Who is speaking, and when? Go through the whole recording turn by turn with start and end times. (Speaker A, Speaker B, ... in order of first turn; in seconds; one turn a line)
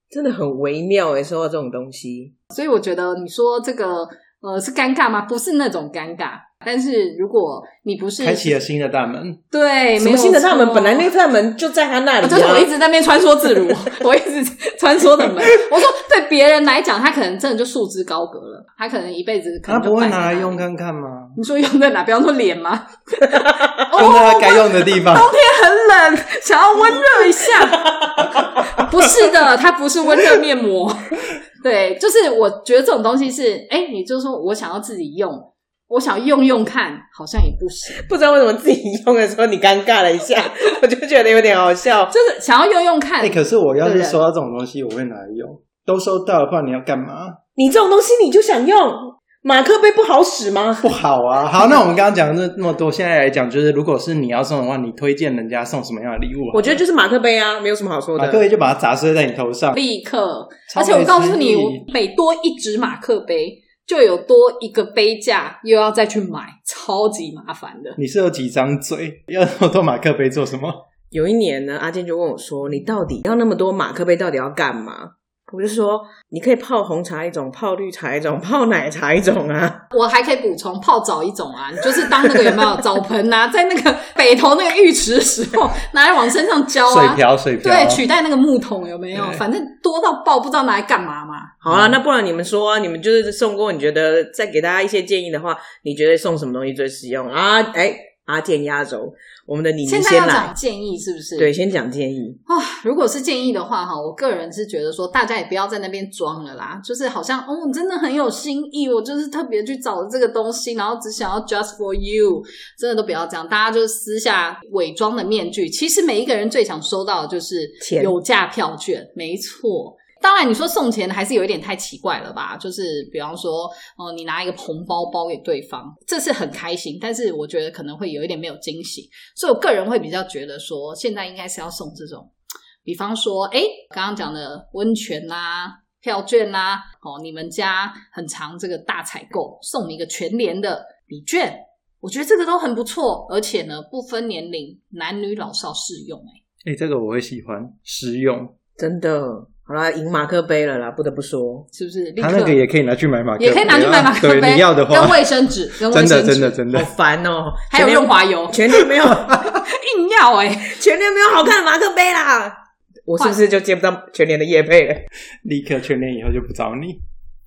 Speaker A: 0.1-2.3
Speaker B: 2.5-8.6
Speaker C: 8.2-9.4
Speaker B: 9.5-11.1
Speaker A: 10.0-12.7
Speaker B: 12.2-20.7
Speaker C: 19.7-21.4
Speaker B: 21.4-38.0
Speaker C: 23.9-25.3
Speaker A: 28.2-28.6
Speaker A: 38.0-42.1
Speaker B: 42.1-44.2
Speaker C: 43.2-47.4
Speaker A: 47.5-50.9
Speaker C: 50.8-56.8
Speaker A: 56.5-58.4
Speaker C: 58.1-59.8
Speaker B: 59.7-68.0
Speaker C: 60.7-61.8
Speaker C: 68.0-70.8
Speaker A: 71.1-79.8
Speaker B: 79.9-91.5
Speaker C: 86.9-88.0
Speaker C: 89.1-89.4
Speaker A: 91.6-100.5
Speaker C: 91.7-92.0
Speaker B: 99.8-101.5
Speaker A: 101.4-102.4
Speaker B: 102.5-132.3
Speaker A: 117.8-118.2
Speaker B: 132.8-146.4
Speaker C: 146.6-148.5
Speaker A: 148.8-151.7
Speaker B: 151.7-152.6
Speaker C: 152.2-155.3
Speaker B: 153.4-156.6
Speaker C: 155.8-156.9
Speaker A: 156.7-159.3
Speaker B: 157.7-160.8
Speaker A: 160.7-165.0
Speaker C: 165.4-167.0